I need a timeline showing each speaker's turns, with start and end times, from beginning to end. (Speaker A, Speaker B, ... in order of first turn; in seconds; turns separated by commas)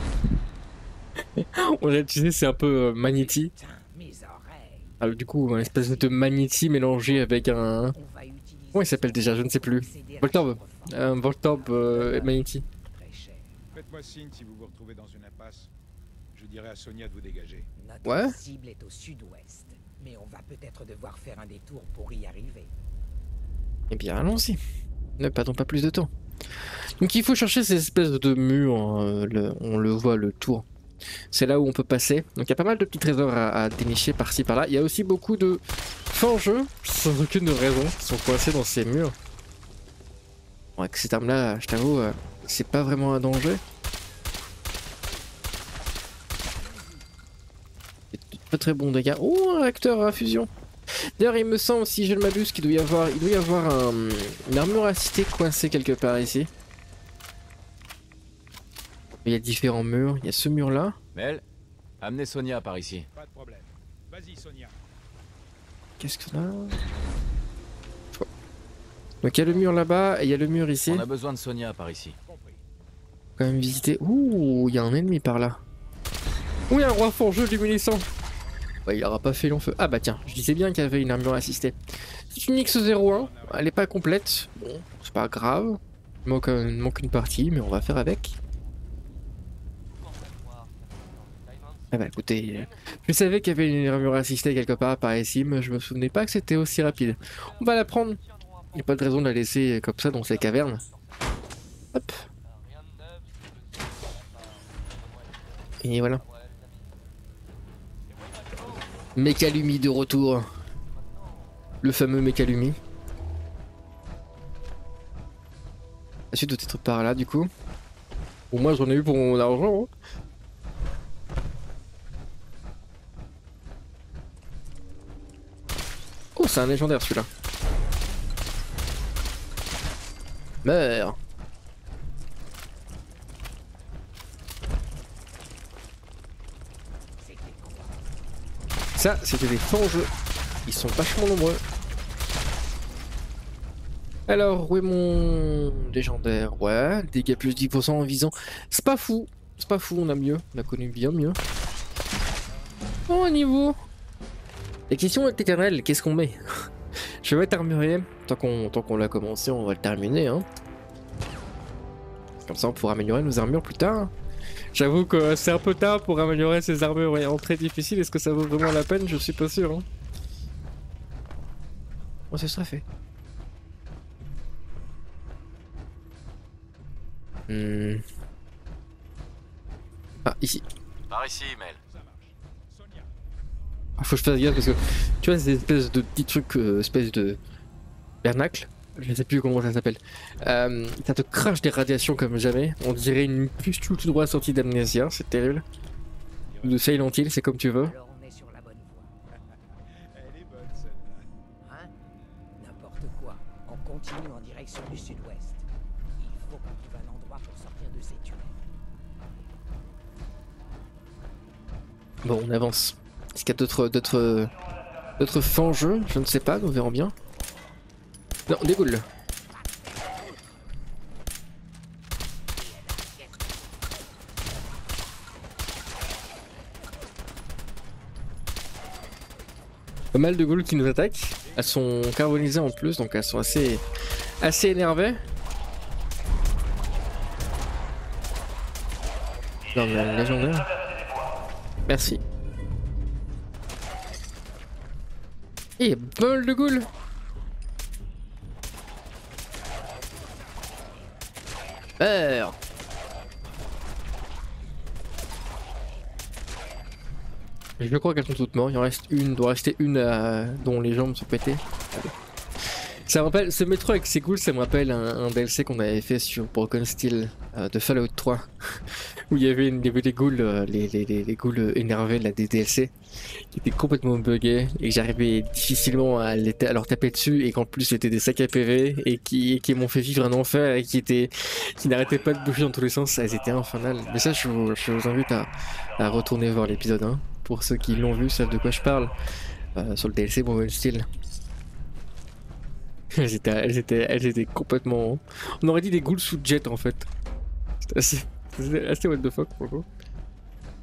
Speaker A: 1.4-3.5, Speaker B: 3.2-6.2, Speaker A: 5.0-8.0, Speaker B: 7.9-13.5, Speaker A: 8.7-12.7, Speaker C: 13.7-15.7, Speaker C: 16.3-17.7, Speaker B: 17.8-22.7, Speaker A: 18.1-18.4, Speaker A: 23.9-24.6, Speaker A: 25.2-26.1, Speaker A: 27.0-30.6, Speaker A: 31.3-39.1, Speaker A: 40.8-43.6, Speaker C: 46.6-47.0, Speaker A: 48.1-56.5, Speaker A: 59.2-61.0, Speaker D: 61.1-61.4, Speaker D: 62.0-63.1, Speaker C: 63.1-64.8, Speaker A: 66.0-66.8, Speaker A: 69.2-71.0, Speaker C: 69.3-70.8, Speaker D: 70.9-72.2, Speaker C: 72.2-72.7, Speaker A: 73.4-75.6, Speaker A: 76.7-78.1, Speaker A: 78.9-81.8, Speaker A: 82.3-88.4, Speaker C: 82.5-84.0, Speaker A: 91.9-98.2, Speaker A: 98.7-100.8, Speaker A: 101.9-102.2, Speaker A: 105.8-106.2, Speaker A: 109.2-110.5, Speaker A: 111.8-112.8, Speaker A: 116.3-117.5, Speaker A: 118.5-119.9, Speaker A: 126.4-127.3, Speaker A: 130.6-131.2, Speaker B: 137.2-138.1, Speaker A: 139.0-140.1, Speaker A: 140.7-141.6, Speaker A: 144.3-151.4, Speaker A: 153.1-153.8, Speaker A: 154.9-156.4, Speaker A: 157.2-160.5, Speaker A: 162.5-164.1, Speaker A: 164.8-169.8, Speaker A: 172.3-172.8, Speaker A: 177.5-178.0, Speaker A: 180.2-180.6, Speaker D: 181.1-181.8, Speaker C: 181.9-183.1, Speaker A: 184.0-187.4, Speaker A: 188.2-195.6, Speaker C: 196.5-197.1, Speaker A: 196.6-197.9, Speaker B: 197.8-199.1, Speaker C: 199.3-201.3, Speaker B: 201.6-201.9, Speaker B: 202.6-208.6, Speaker A: 212.2-214.5, Speaker A: 215.2-217.1, Speaker A: 218.5-219.1, Speaker B: 219.5-220.8, Speaker B: 222.5-224.0, Speaker A: 230.1-233.8, Speaker C: 231.4-232.4, Speaker A: 234.4-235.2, Speaker A: 239.7-240.7, Speaker A: 241.9-242.2, Speaker A: 245.8-246.9, Speaker A: 252.0-252.6, Speaker A: 257.8-262.1, Speaker A: 263.1-268.5, Speaker A: 269.3-272.9, Speaker A: 273.5-289.1, Speaker A: 289.8-291.1, Speaker A: 293.1-297.1, Speaker A: 297.8-299.9